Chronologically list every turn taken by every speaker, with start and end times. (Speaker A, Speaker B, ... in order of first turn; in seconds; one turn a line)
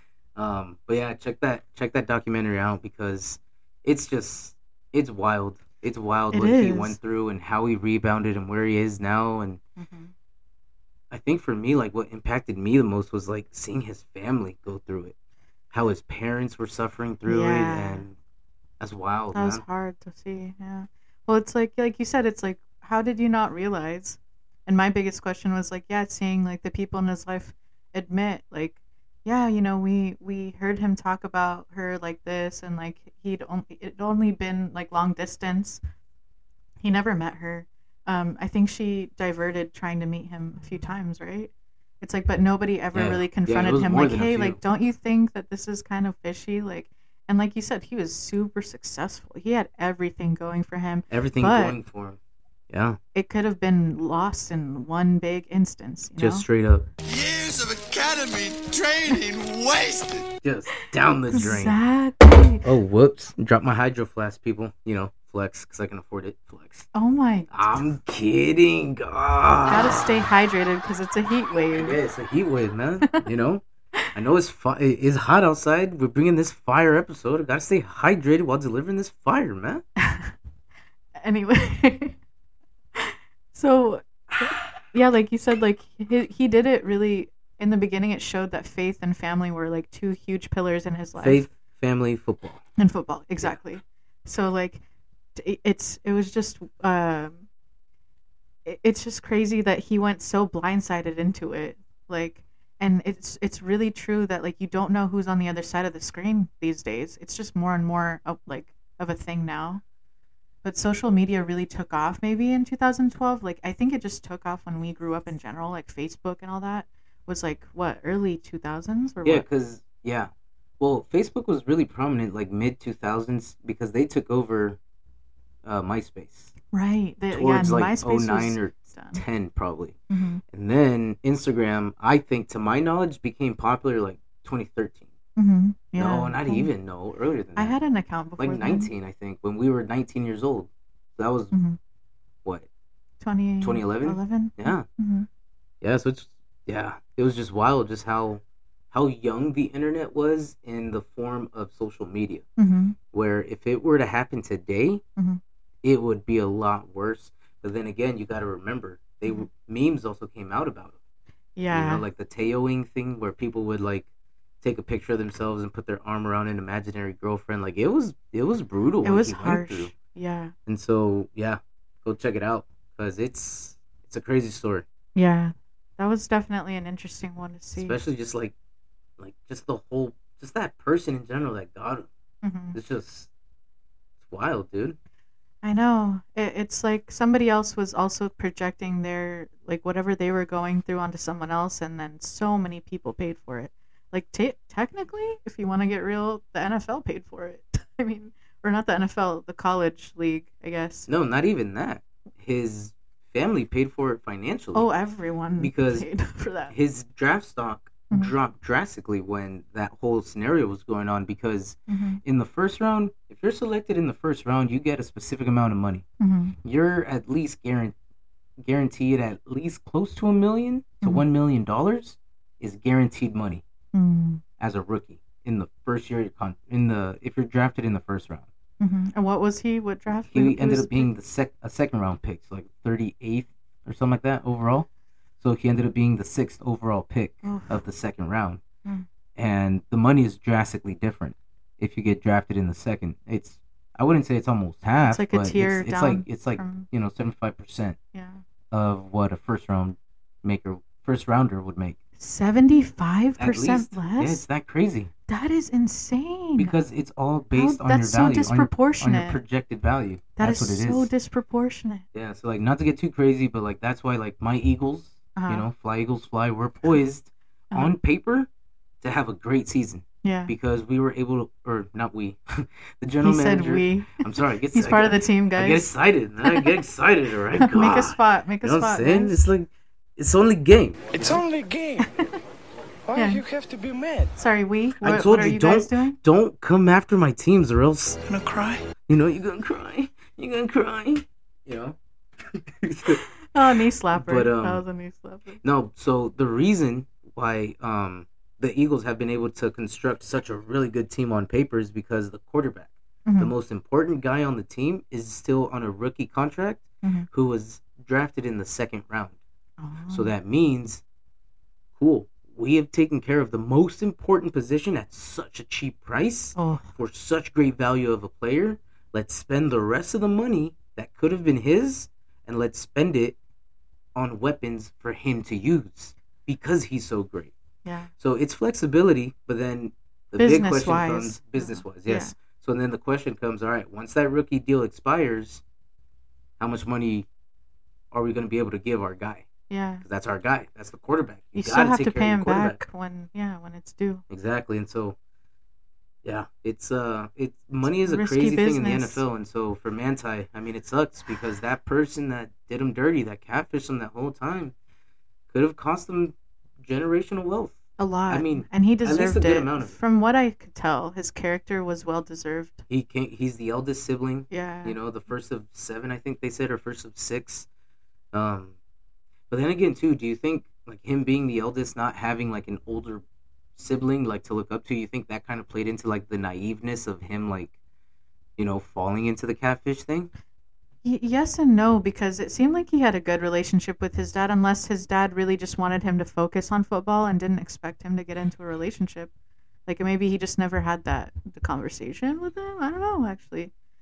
Speaker A: 0.3-9.6
Speaker B: 6.3-7.0
Speaker B: 9.8-10.1
Speaker A: 11.1-15.1
Speaker A: 15.7-18.1
Speaker B: 17.2-18.0
Speaker A: 18.8-19.6
Speaker B: 19.3-35.8
Speaker B: 36.8-51.8
Speaker A: 42.9-44.6
Speaker A: 51.1-52.2
Speaker A: 52.7-53.0
Speaker B: 53.1-56.4
Speaker A: 56.2-56.9
Speaker C: 57.0-60.3
Speaker A: 60.4-61.8
Speaker B: 61.3-62.6
Speaker A: 62.6-66.9
Speaker B: 66.9-67.8
Speaker A: 67.5-70.3
Speaker B: 69.7-72.0
Speaker A: 71.8-73.6
Speaker A: 74.1-79.8
Speaker B: 80.0-80.3
Speaker B: 81.2-82.2
Speaker B: 83.0-91.5
Speaker A: 91.2-92.6
Speaker B: 92.8-94.8
Speaker B: 95.3-97.4
Speaker B: 98.6-109.8
Speaker B: 110.6-119.5
Speaker A: 119.2-124.8
Speaker A: 125.6-126.5
Speaker B: 126.7-129.2
Speaker A: 127.3-129.9
Speaker B: 130.1-130.4
Speaker A: 130.5-135.1
Speaker B: 135.4-136.7
Speaker A: 136.0-137.8
Speaker B: 137.6-138.9
Speaker A: 138.4-141.5
Speaker B: 141.5-141.8
Speaker B: 143.2-145.3
Speaker A: 143.6-144.8
Speaker A: 145.8-152.4
Speaker B: 152.6-152.9
Speaker A: 153.1-155.0
Speaker A: 155.8-160.9
Speaker B: 161.6-162.0
Speaker A: 161.7-164.1
Speaker A: 164.6-169.9
Speaker B: 169.0-170.5
Speaker A: 170.7-174.8
Speaker B: 175.1-178.0
Speaker A: 177.8-178.5
Speaker A: 179.2-182.1
Speaker B: 182.4-182.8
Speaker A: 182.7-183.3
Speaker A: 184.2-185.0
Speaker B: 185.6-201.1
Speaker A: 201.1-204.9
Speaker B: 204.7-206.7
Speaker A: 205.6-206.1
Speaker A: 206.7-216.0
Speaker B: 211.9-212.2
Speaker B: 216.2-216.6
Speaker A: 216.6-217.9
Speaker A: 218.6-223.6
Speaker B: 223.9-224.4
Speaker A: 224.6-228.4
Speaker B: 228.8-231.1
Speaker A: 230.3-234.9
Speaker A: 235.4-238.6
Speaker B: 237.4-237.8
Speaker A: 239.3-248.0
Speaker B: 245.1-246.9
Speaker B: 248.1-248.4
Speaker A: 248.7-252.0
Speaker B: 252.2-254.4
Speaker A: 253.4-255.1
Speaker B: 255.3-256.7
Speaker A: 256.6-261.1
Speaker B: 257.5-259.4
Speaker B: 260.4-262.0
Speaker A: 262.1-268.5
Speaker B: 265.4-265.7
Speaker A: 269.0-281.4
Speaker B: 270.2-270.5
Speaker B: 273.2-275.9
Speaker B: 276.4-276.7
Speaker B: 277.6-279.4
Speaker C: 281.1-282.1
Speaker B: 282.0-282.4
Speaker C: 283.1-284.3
Speaker B: 283.1-283.4
Speaker B: 284.4-286.2
Speaker A: 285.0-288.2
Speaker C: 288.2-288.8
Speaker A: 289.1-293.2
Speaker B: 293.5-295.6
Speaker A: 294.1-294.8
Speaker A: 295.6-309.4
Speaker B: 303.3-303.5
Speaker B: 309.8-310.3
Speaker A: 310.1-311.0
Speaker A: 311.9-323.4
Speaker B: 316.6-316.9
Speaker A: 324.1-327.5
Speaker B: 327.8-328.1
Speaker A: 328.2-335.6
Speaker B: 330.4-332.3
Speaker A: 336.6-337.3
Speaker A: 338.1-339.5
Speaker B: 339.7-340.0
Speaker A: 340.0-342.8
Speaker B: 341.6-344.2
Speaker A: 344.3-345.1
Speaker A: 346.2-354.7
Speaker B: 347.9-349.2
Speaker A: 355.5-359.9
Speaker B: 358.0-362.8
Speaker A: 362.9-367.7
Speaker B: 364.5-365.0
Speaker A: 368.3-368.7
Speaker A: 369.5-373.2
Speaker A: 373.8-377.7
Speaker A: 378.6-380.3
Speaker B: 381.0-389.3
Speaker B: 389.9-393.7